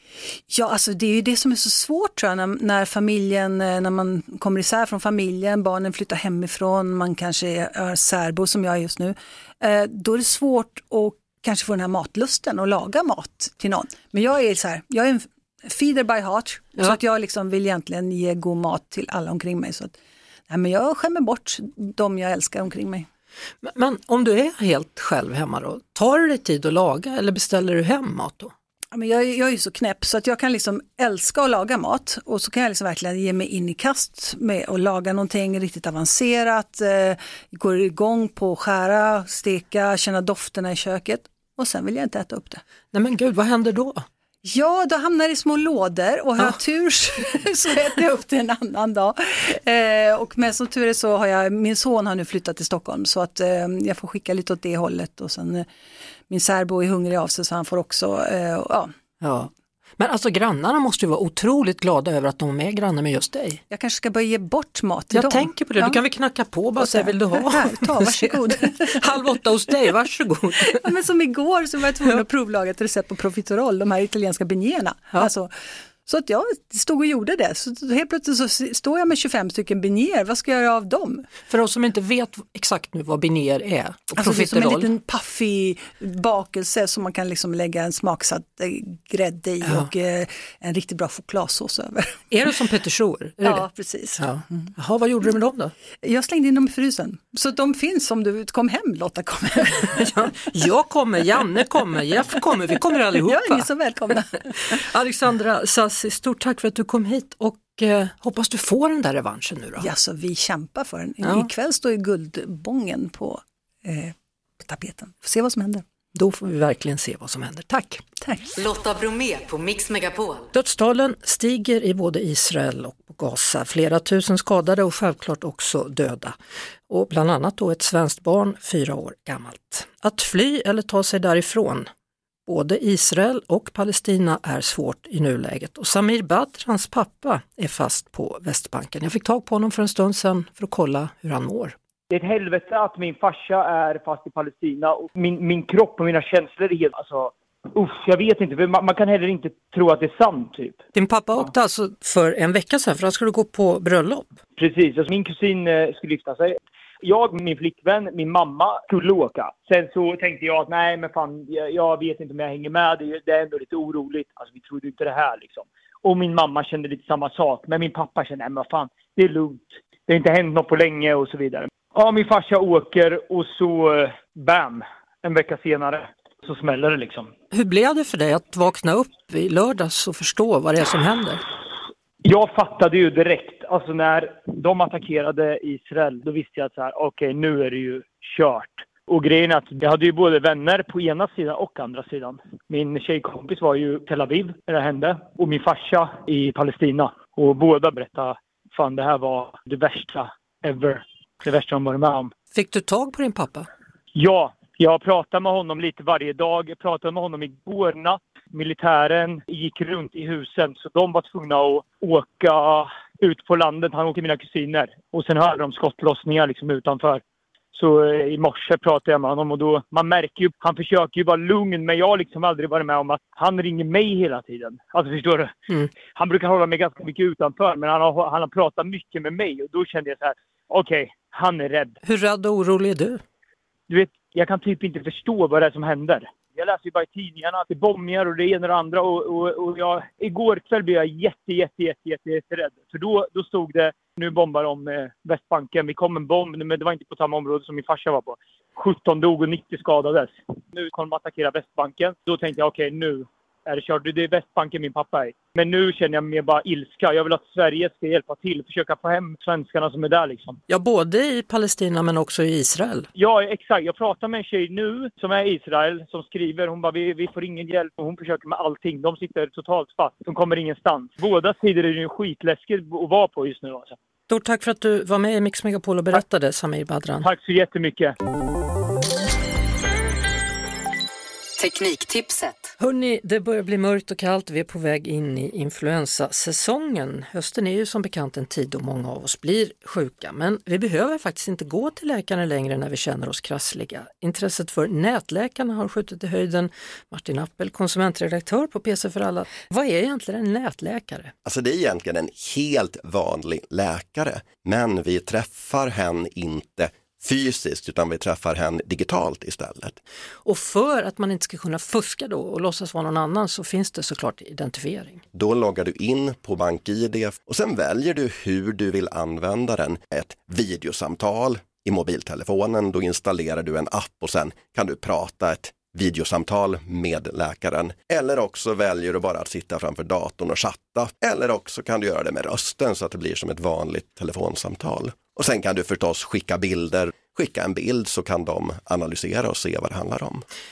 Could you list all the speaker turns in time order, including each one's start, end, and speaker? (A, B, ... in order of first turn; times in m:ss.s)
0:00.5-0:19.9 A
0:20.5-0:23.1 A
0:23.6-0:28.5 B
0:28.9-0:42.6 A
0:42.9-0:44.0 B
0:44.4-0:55.6 A
0:56.3-0:58.9 A
0:59.2-1:03.6 B
1:03.7-1:06.0 A
1:05.1-1:10.8 B
1:06.8-1:09.0 A
1:10.6-1:15.5 A
1:16.0-1:21.2 A
1:21.5-1:24.9 B
1:24.2-1:32.2 A
1:32.3-1:33.6 B
1:33.4-1:34.7 A
1:34.2-1:35.7 B
1:36.0-1:40.1 A
1:39.9-1:43.7 B
1:43.2-1:44.7 A
1:44.7-1:49.9 B
1:49.8-1:55.8 A
1:51.2-1:51.5 B
1:56.1-1:58.0 B
1:58.2-1:58.5 A
1:58.6-2:00.5 C
2:00.5-2:06.3 B
2:06.9-2:11.9 B
2:12.4-2:21.8 B
2:22.1-2:30.8 D
2:30.9-2:34.4 B
2:34.6-2:57.3 D
2:57.5-3:01.4 B
3:02.2-3:22.3 D
3:22.5-3:23.7 B
3:24.1-3:37.2 D
3:37.7-3:45.5 D
3:46.1-3:52.0 D
3:52.0-3:53.2 B
3:53.9-4:20.6 D
4:20.7-4:23.1 B
4:23.1-4:34.0 D
4:34.3-4:37.3 B
4:37.2-4:38.1 D
4:41.6-4:42.7 C
4:42.8-5:01.3 B
5:01.4-5:10.0 E
5:10.4-5:15.2 B
5:15.3-5:40.4 E